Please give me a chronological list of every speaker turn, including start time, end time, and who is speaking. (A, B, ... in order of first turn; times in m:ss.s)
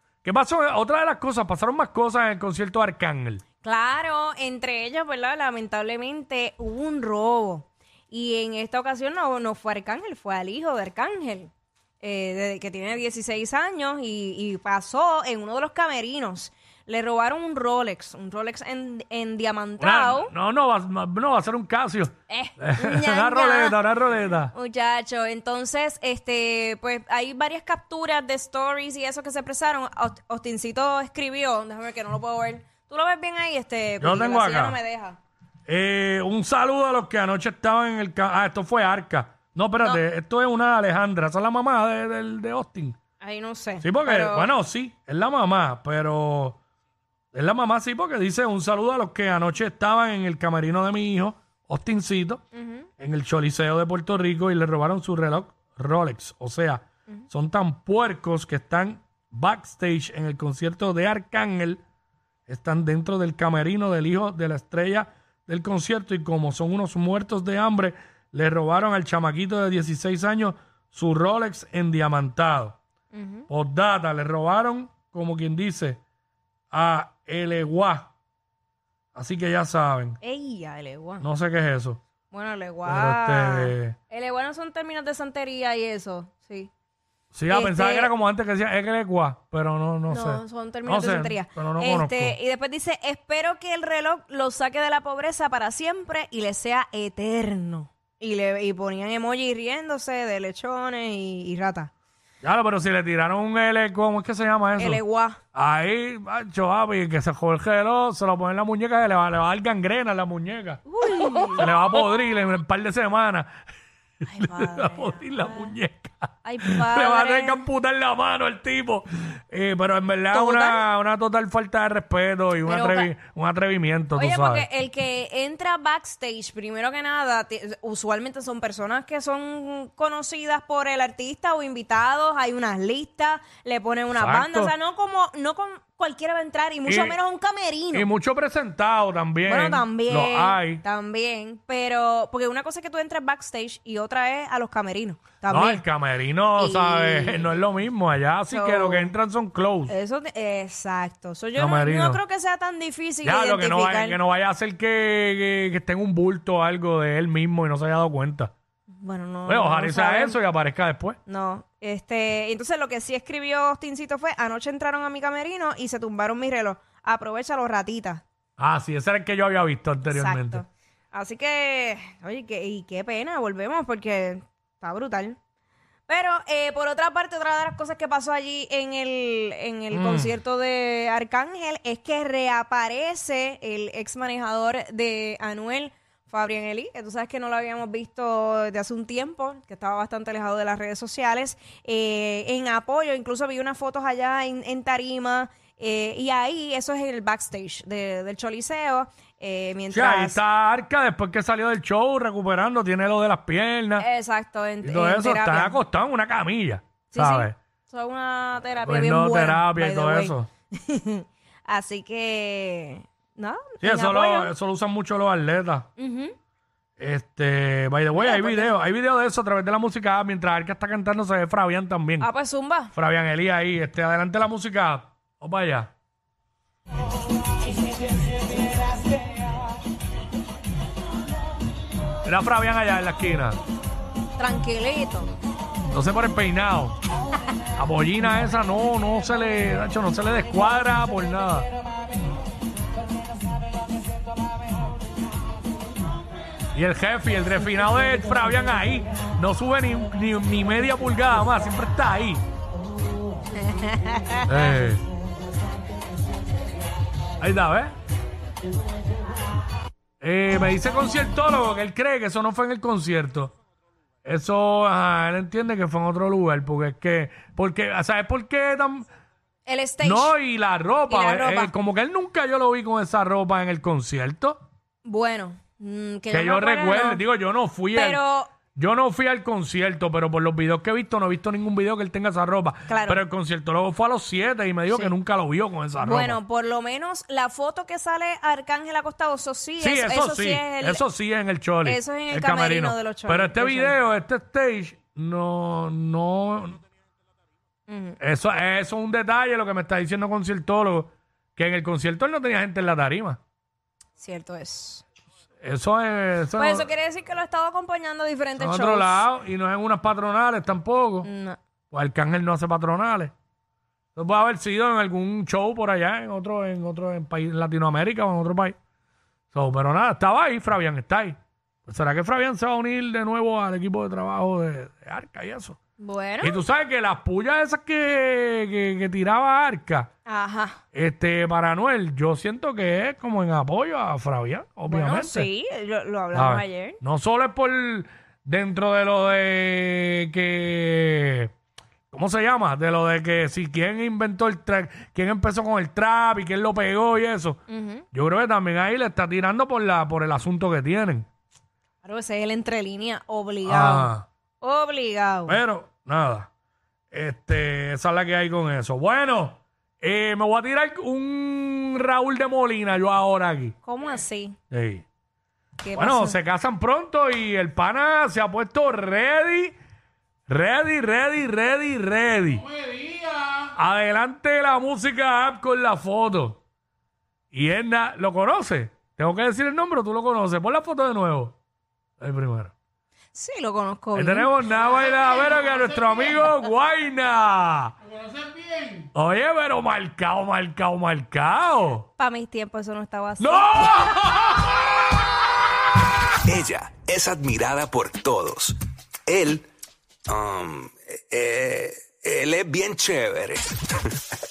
0:00.2-0:03.4 A
0:03.6-0:20.3 B
0:19.8-0:24.5 A
0:22.3-0:23.8 B
0:24.5-0:35.2 B
0:34.0-0:34.8 A
0:35.7-0:43.0 A
0:43.2-0:44.5 B
0:43.8-0:46.6 A
0:47.3-0:52.4 A
0:52.6-0:52.9 B
0:53.0-1:01.8 A
1:02.5-1:12.8 A
1:13.1-1:13.5 B
1:13.5-1:16.0 A
1:16.7-1:18.1 A
1:19.2-1:20.2 A
1:20.2-1:21.2 B
1:21.2-1:22.0 A
1:22.3-1:26.7 B
1:22.8-1:24.0 A
1:27.3-1:32.4 A
1:27.5-1:28.1 B
1:30.1-1:41.9 B
1:42.4-1:45.0 A
1:44.8-1:45.4 B
1:45.5-1:50.8 A
1:50.9-1:51.7 B
1:51.6-1:53.5 A
1:54.2-1:55.7 B
1:54.4-2:04.7 A
1:56.4-1:57.6 B
2:00.3-2:00.8 B
2:02.7-2:03.1 B
2:04.2-2:18.1 B
2:14.2-2:14.7 A
2:16.9-2:17.2 A
2:17.9-2:20.8 A
2:19.4-2:25.8 B
2:25.4-2:30.0 A
2:26.6-2:27.5 B
2:28.5-2:29.1 B
2:29.9-2:34.2 B
2:31.6-2:32.2 A
2:33.2-2:38.5 A
2:39.0-2:40.4 B
2:39.5-2:41.2 A
2:41.3-2:48.2 B
2:48.6-2:50.6 A
2:50.1-2:55.4 B
2:56.1-3:20.4 B
2:59.9-3:00.4 A
3:19.9-3:24.1 A
3:24.0-3:25.8 B
3:24.8-3:27.6 A
3:27.1-3:34.5 B
3:28.8-3:30.5 A
3:33.8-3:35.9 A
3:36.0-3:36.4 B
3:37.0-3:42.3 A
3:38.2-3:38.8 B
3:42.2-3:42.9 B
3:42.9-3:45.9 A
3:52.2-3:53.6 A
3:54.4-3:55.3 B
3:55.9-3:57.0 A
3:57.8-4:01.7 A
4:06.7-4:12.4 A
4:13.6-4:14.5 B
4:14.5-4:15.0 A
4:17.4-4:18.0 A
4:20.2-4:23.5 A
4:24.2-4:29.1 A
4:29.7-4:30.4 B
4:30.0-4:34.6 A
4:31.1-4:31.7 B
4:35.0-4:37.2 B
4:36.3-4:46.4 A
4:38.0-4:38.6 B
4:42.9-4:43.2 B
4:44.9-4:45.2 B
4:46.0-4:51.1 B
4:49.8-4:56.8 A
4:51.8-4:54.0 B
4:57.9-4:58.2 B
4:58.2-5:03.4 A
5:04.2-5:05.0 B
5:05.6-5:06.9 A
5:06.5-5:09.3 B
5:08.6-5:11.3 A
5:11.2-5:11.6 B
5:11.9-5:13.3 A
5:14.2-5:18.8 A
5:19.5-5:25.8 A
5:26.0-5:26.6 B
5:26.4-5:30.1 A
5:30.3-5:30.8 B
5:30.9-5:35.5 A
5:34.9-5:37.0 B
5:36.3-5:41.5 A
5:42.1-5:47.6 A
5:47.7-5:48.0 B
5:48.1-5:51.3 A
5:52.0-5:55.6 B
5:53.6-5:54.3 A
5:55.5-5:56.5 A
5:57.1-6:03.8 A
6:03.9-6:04.6 B
6:04.7-6:05.0 A
6:05.8-6:06.4 B
6:06.0-6:09.8 A
6:10.5-6:12.7 A
6:13.7-6:16.6 A
6:17.5-6:21.6 A
6:22.2-6:22.7 A
6:23.4-6:24.5 B
6:24.2-6:28.0 A
6:29.1-6:32.1 A
6:32.2-6:34.3 B
6:33.4-6:34.8 A
6:36.5-6:39.7 C
6:40.3-6:43.9 C